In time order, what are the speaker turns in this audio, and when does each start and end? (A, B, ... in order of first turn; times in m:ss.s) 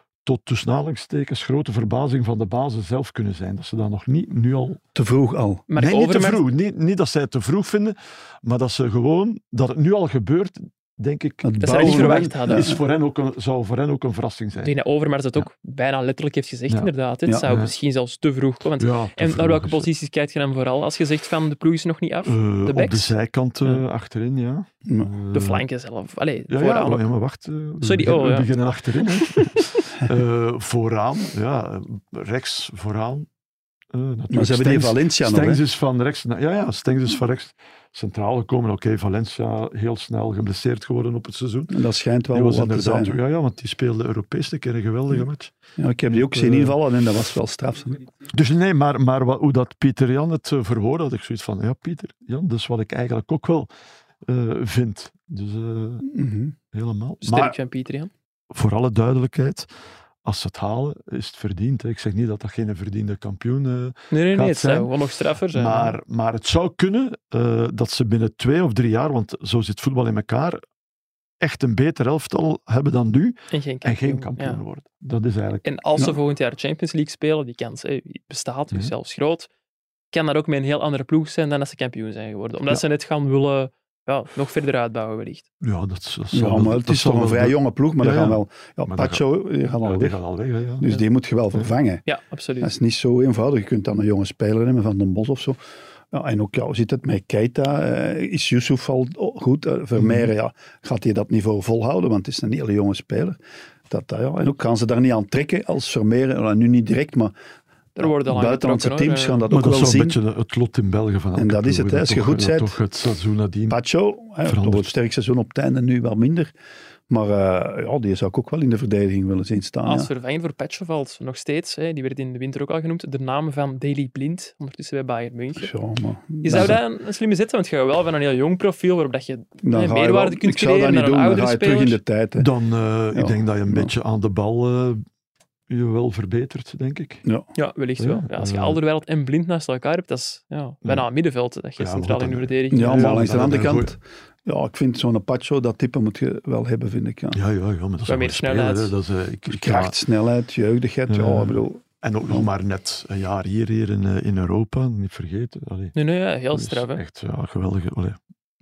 0:00.2-0:04.8 A
0:05.0-0:05.6 B
0:05.7-0:06.4 C
0:05.8-0:14.7 A
0:11.4-0:12.8 B
0:11.6-0:12.7 C
0:14.6-0:23.1 C
0:17.5-0:17.7 A
0:18.8-0:19.9 A
0:22.2-0:25.6 A
0:25.3-0:27.0 C
0:26.5-0:33.3 A
0:27.8-0:28.5 C
0:29.1-0:29.8 C
0:33.9-0:45.5 A
0:34.3-0:35.6 B
0:41.7-0:43.2 B
0:45.8-0:48.0 B
0:46.1-0:46.8 A
0:48.3-0:53.7 A
0:54.2-0:56.2 A
0:56.1-0:56.6 B
0:56.7-0:57.6 A
0:57.2-0:58.1 C
0:58.5-0:59.7 A
1:00.2-1:04.9 A
1:04.1-1:06.0 C
1:05.5-1:10.6 A
1:11.4-1:15.6 A
1:13.5-1:14.6 C
1:15.6-1:19.5 C
1:20.1-1:25.4 C
1:25.6-1:30.9 A
1:26.3-1:30.2 B
1:30.8-1:32.0 B
1:32.1-1:32.7 C
1:32.6-1:35.6 B
1:36.1-1:43.4 B
1:40.0-1:40.3 A
1:43.9-1:47.4 B
1:48.0-1:50.2 B
1:48.0-1:49.5 C
1:49.5-1:53.8 A
1:51.4-1:52.8 B
1:53.7-1:56.5 B
1:54.4-1:54.9 A
1:57.1-2:00.1 B
1:59.8-2:05.7 C
2:05.6-2:06.8 B
2:06.4-2:12.0 C
2:09.6-2:12.5 B
2:12.4-2:15.0 A
2:13.1-2:13.9 B
2:15.7-2:17.2 A
2:17.6-2:23.2 C
2:18.0-2:18.8 A
2:21.8-2:23.9 A
2:22.7-2:27.4 B
2:27.3-2:30.0 A
2:28.1-2:28.9 C
2:29.5-2:32.5 B
2:31.1-2:36.0 A
2:36.0-2:37.0 C
2:36.5-2:38.2 A